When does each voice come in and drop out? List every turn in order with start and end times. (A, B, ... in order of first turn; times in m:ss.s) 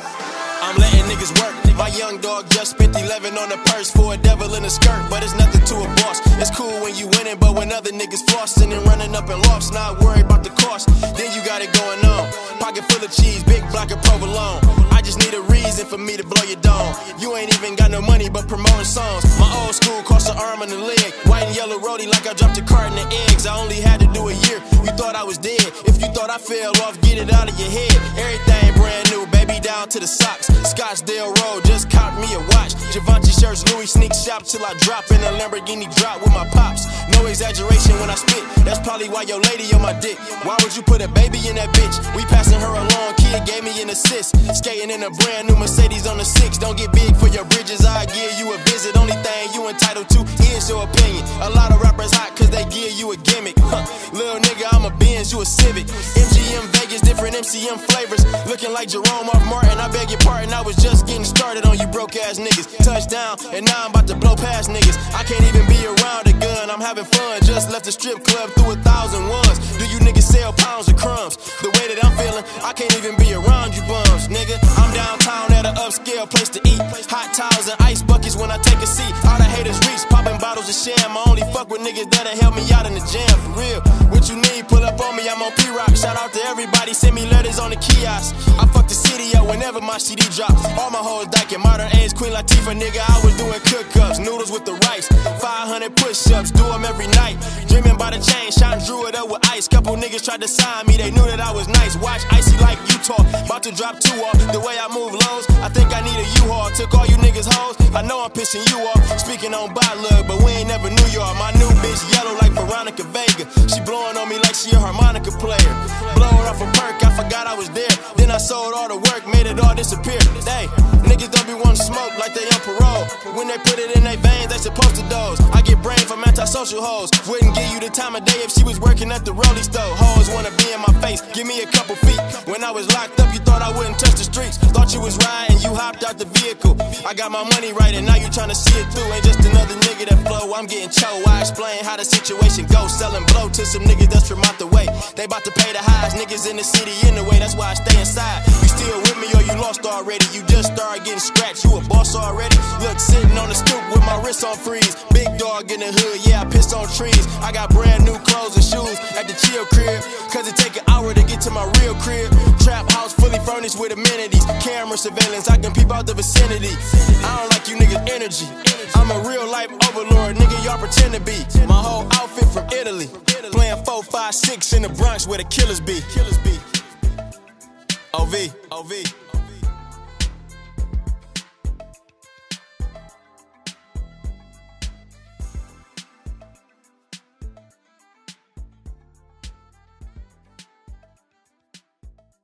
0:00.6-2:56.6 A
2:58.1-2:59.4 A